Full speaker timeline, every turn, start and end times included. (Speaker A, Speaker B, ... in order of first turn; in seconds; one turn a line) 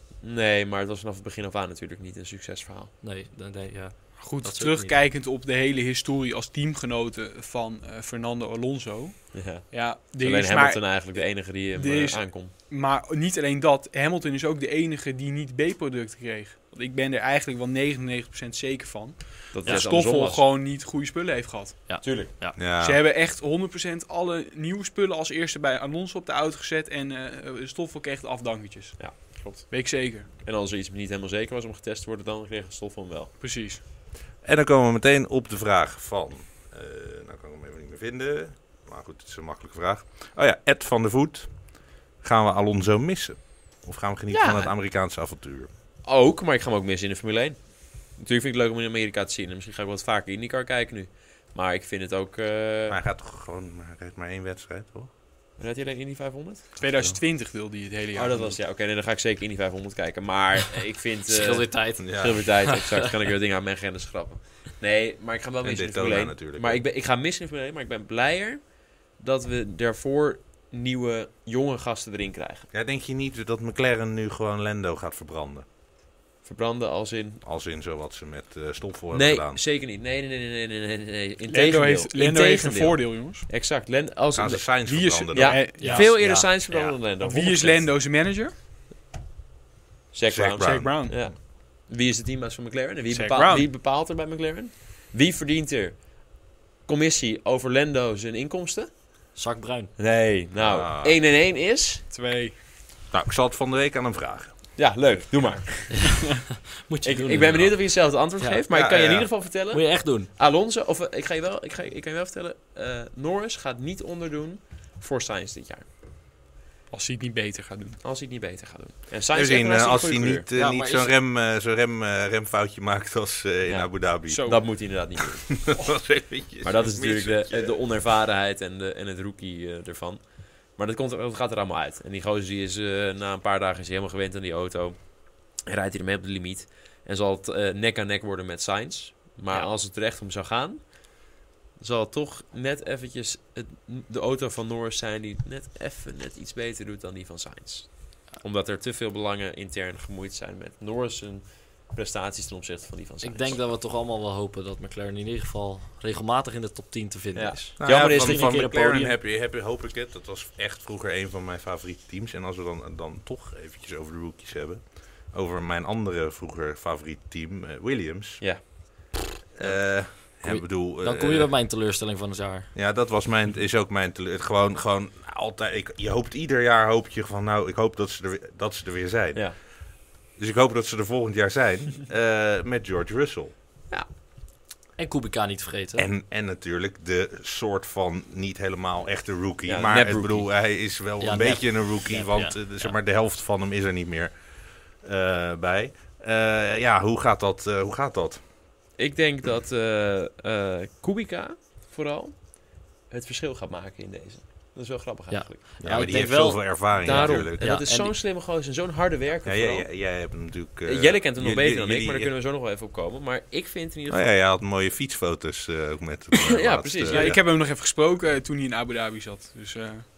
Speaker A: 0.2-3.0
Speaker B: 3.0-5.0
Speaker C: 4.2-30.3
Speaker A: 9.3-12.5
Speaker A: 19.5-20.5
Speaker B: 21.9-22.6
Speaker A: 22.0-22.3
Speaker D: 22.6-23.0
Speaker A: 29.0-33.4
Speaker C: 33.4-33.8
Speaker D: 34.4-45.7
Speaker A: 44.3-44.7
Speaker A: 46.0-53.0
Speaker D: 52.9-55.1
Speaker A: 55.6-56.7
Speaker C: 56.8-58.6
Speaker D: 56.8-57.2
Speaker A: 58.1-72.7
Speaker B: 61.3-63.0
Speaker D: 62.0-62.5
Speaker D: 65.6-66.8
Speaker D: 72.7-75.7
Speaker A: 76.4-77.4
Speaker D: 77.4-79.6
Speaker A: 79.1-87.9
Speaker C: 81.5-83.5
Speaker D: 84.3-85.7
Speaker C: 84.8-86.1
Speaker B: 85.8-86.5
Speaker C: 87.2-88.5
Speaker A: 90.1-98.9
Speaker D: 90.3-91.3
Speaker C: 90.6-91.2
Speaker C: 93.1-93.7
Speaker B: 99.3-99.9
Speaker A: 100.0-102.1
Speaker D: 100.5-101.2
Speaker C: 102.1-102.6
Speaker D: 103.1-104.7
Speaker A: 104.8-106.3
Speaker B: 105.9-106.2
Speaker B: 106.8-108.6
Speaker A: 107.0-115.9
Speaker D: 108.7-109.3
Speaker B: 109.7-110.3
Speaker C: 116.9-118.0
Speaker A: 118.0-120.5
Speaker D: 119.3-127.8
Speaker B: 120.5-121.1
Speaker A: 123.7-125.7
Speaker C: 124.3-124.6
Speaker A: 126.6-141.1
Speaker A: 141.8-153.6
Speaker B: 153.2-159.2
Speaker A: 157.3-158.7
Speaker D: 157.8-168.4
Speaker A: 168.4-169.7
Speaker D: 169.6-171.5
Speaker B: 170.2-172.7
Speaker D: 172.7-183.5
Speaker B: 185.0-186.1
Speaker D: 186.0-198.5
Speaker A: 189.7-190.5
Speaker B: 191.2-192.9
Speaker A: 199.0-206.2
Speaker B: 205.3-208.1
Speaker D: 205.8-207.7
Speaker A: 207.0-210.1
Speaker D: 209.4-212.3
Speaker A: 210.8-214.3
Speaker D: 214.1-217.4
Speaker A: 216.4-217.4
Speaker C: 217.1-220.1